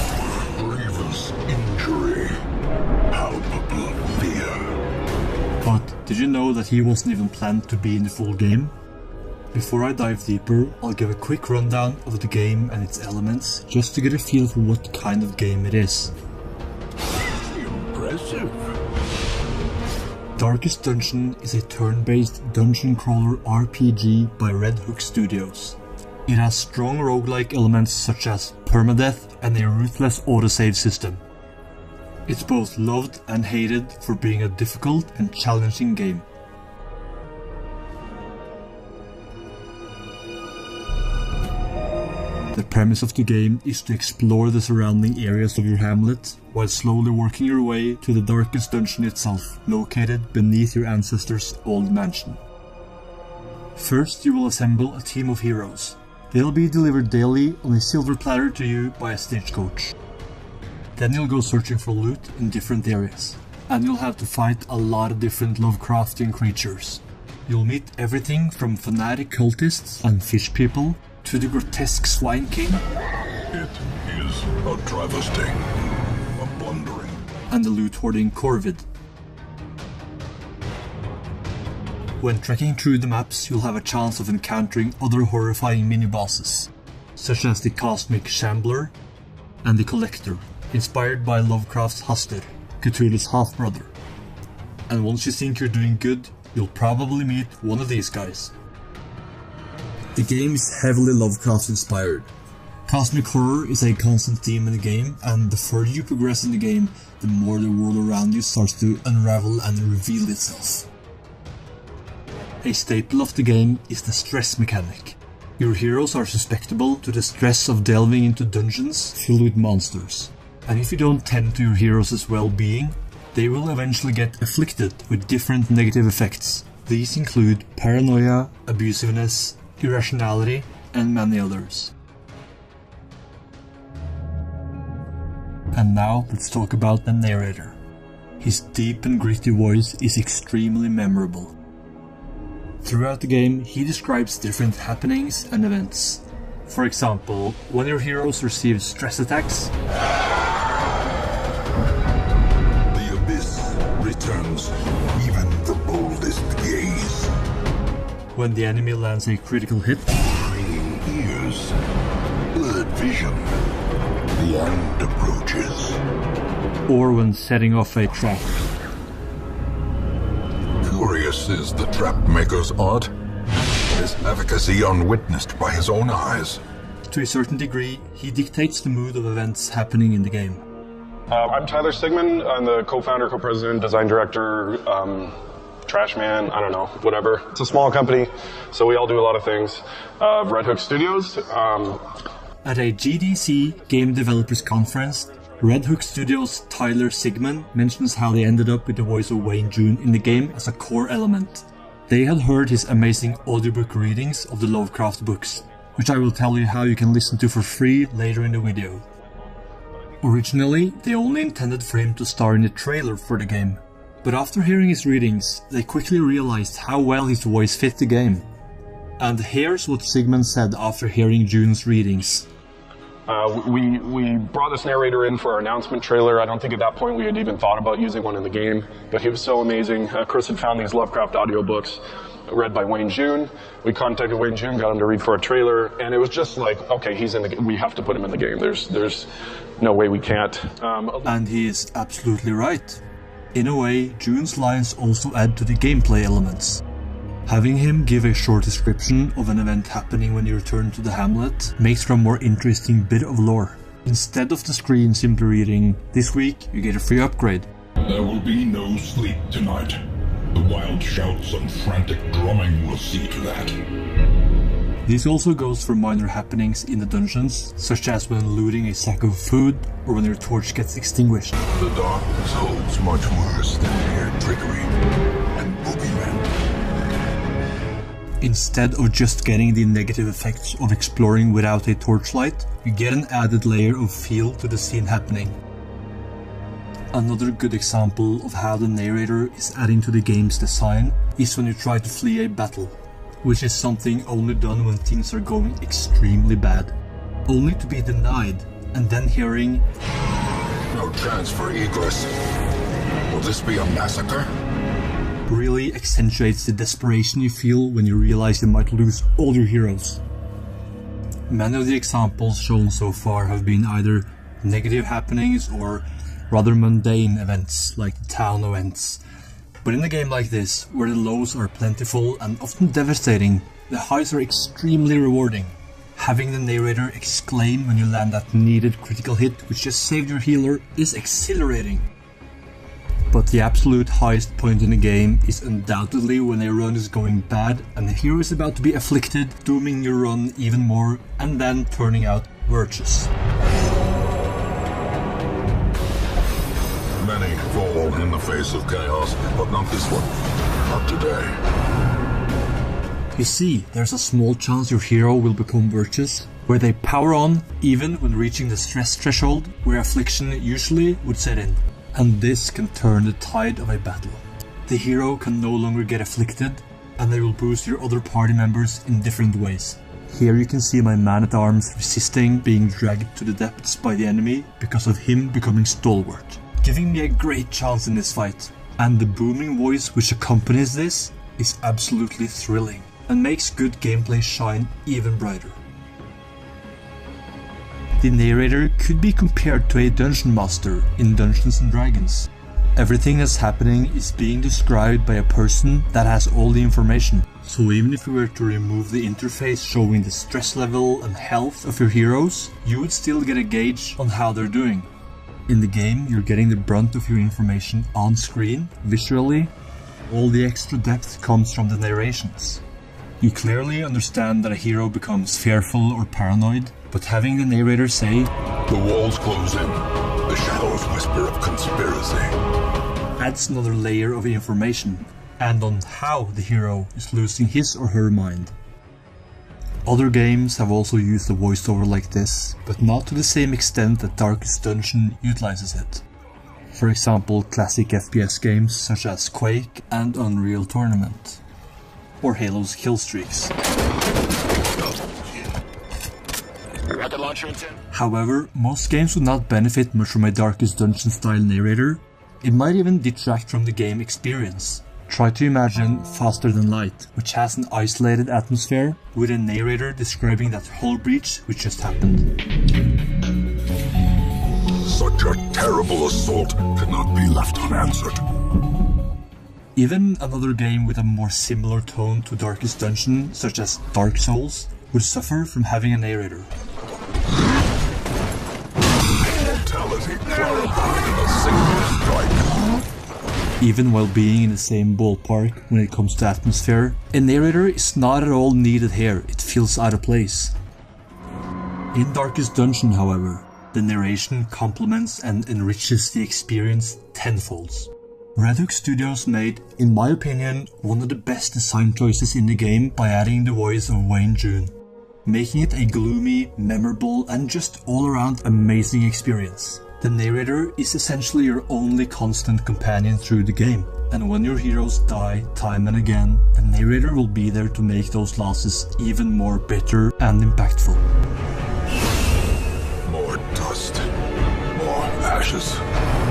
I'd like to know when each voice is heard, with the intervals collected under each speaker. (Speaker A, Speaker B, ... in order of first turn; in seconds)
Speaker A: 0.3-2.4, 3.1-4.8, 17.2-18.7, 73.5-75.7, 76.2-77.2, 152.9-157.3, 160.2-161.8, 162.5-163.5, 164.3-166.0, 170.8-173.1, 173.8-176.6, 258.0-263.9, 271.6-274.9, 275.5-276.5, 300.9-302.3, 303.3-304.5, 347.2-351.6, 418.9-422.6, 464.9-468.5, 479.5-483.0, 523.2-524.3, 524.9-526.0
Speaker B: 5.6-8.7, 9.5-16.1, 20.4-31.2, 32.3-36.2, 42.5-52.4, 53.8-60.0, 61.0-72.8, 77.5-78.8, 82.2-88.9, 89.6-93.9, 94.9-98.5, 100.1-102.3, 102.9-110.9, 112.6-131.9, 135.7-137.8, 138.4-141.5, 142.8-149.7, 158.3-160.1, 166.9-168.6, 177.1-180.6, 192.6-209.0, 210.2-218.4, 219.2-222.5, 241.2-243.0, 243.5-246.8, 247.4-257.7, 265.0-271.6, 278.4-285.6, 287.1-296.9, 297.5-299.8, 305.5-310.2, 311.5-319.2, 319.8-332.1, 333.3-343.3, 353.3-385.8, 388.2-405.1, 405.7-409.7, 410.3-412.8, 413.4-418.5, 423.4-428.7, 430.0-436.2, 436.9-441.6, 442.4-443.7, 448.1-462.5, 469.9-476.7, 483.8-490.8, 492.1-504.9, 505.4-521.2
Speaker C: 181.3-192.1, 223.3-241.3, 447.2-447.9